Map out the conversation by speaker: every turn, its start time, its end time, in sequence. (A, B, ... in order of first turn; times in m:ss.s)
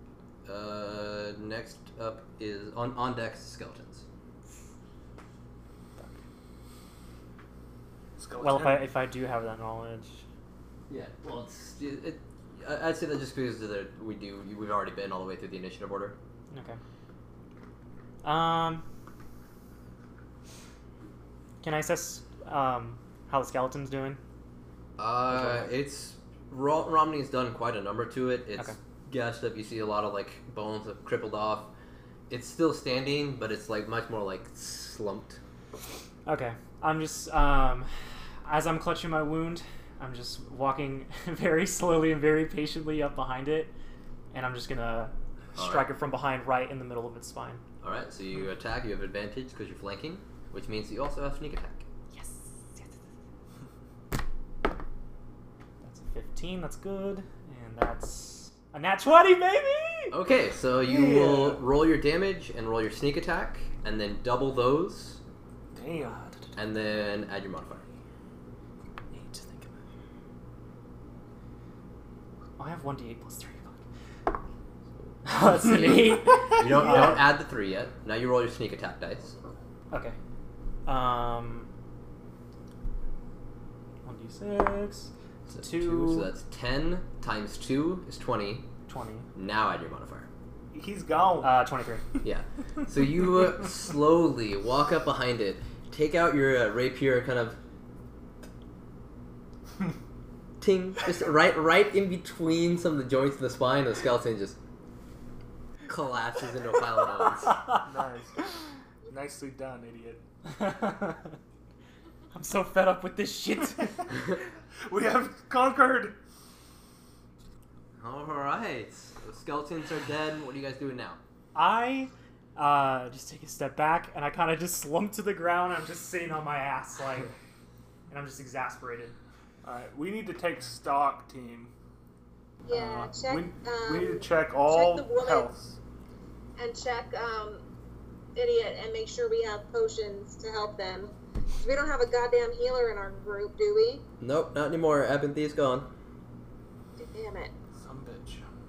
0:00.5-0:04.0 A
0:08.2-0:08.9 B
0:08.4-0:10.2 C
0:10.9-0:16.2 A
0:16.5-0:16.8 C
0:18.2-0:18.8 C
0:21.6-0:24.2 C
0:25.0-0:31.7 A
0:25.3-0:25.7 C
0:32.3-0:35.4 A
0:36.3-0:37.9 C
0:38.4-0:43.7 C
0:44.3-0:47.6 C
0:45.6-0:45.9 A
0:47.8-0:51.8 A
0:52.1-0:53.0 C
0:55.8-1:00.2 C
1:00.1-1:05.2 A
1:00.8-1:01.6 B
1:05.7-1:06.3 B
1:06.6-1:07.9 A
1:09.1-1:09.8 C
1:12.6-1:13.8 C
1:15.0-1:19.4 A
1:15.2-1:17.3 C
1:19.9-1:20.2 C
1:20.9-1:21.7 C
1:24.0-1:26.3 C
1:25.5-1:28.7 A
1:28.9-1:29.3 C
1:29.4-1:30.3 A
1:30.7-1:31.6 B
1:31.4-1:32.0 C
1:32.2-1:37.6 A
1:40.6-1:44.6 A
1:45.9-1:47.6 A
1:47.8-1:48.4 B
1:49.1-1:50.2 B
1:50.5-1:51.4 C
1:52.3-1:54.4 C
1:54.8-1:56.2 B
1:58.0-2:01.2 A
2:01.6-2:07.3 C
2:08.1-2:09.2 C
2:09.6-2:11.7 B
2:12.6-2:15.5 D
2:12.7-2:15.8 B
2:16.6-2:17.6 D
2:18.4-2:24.0 D
2:24.2-2:25.9 A
2:27.0-2:27.5 D
2:27.8-2:28.4 B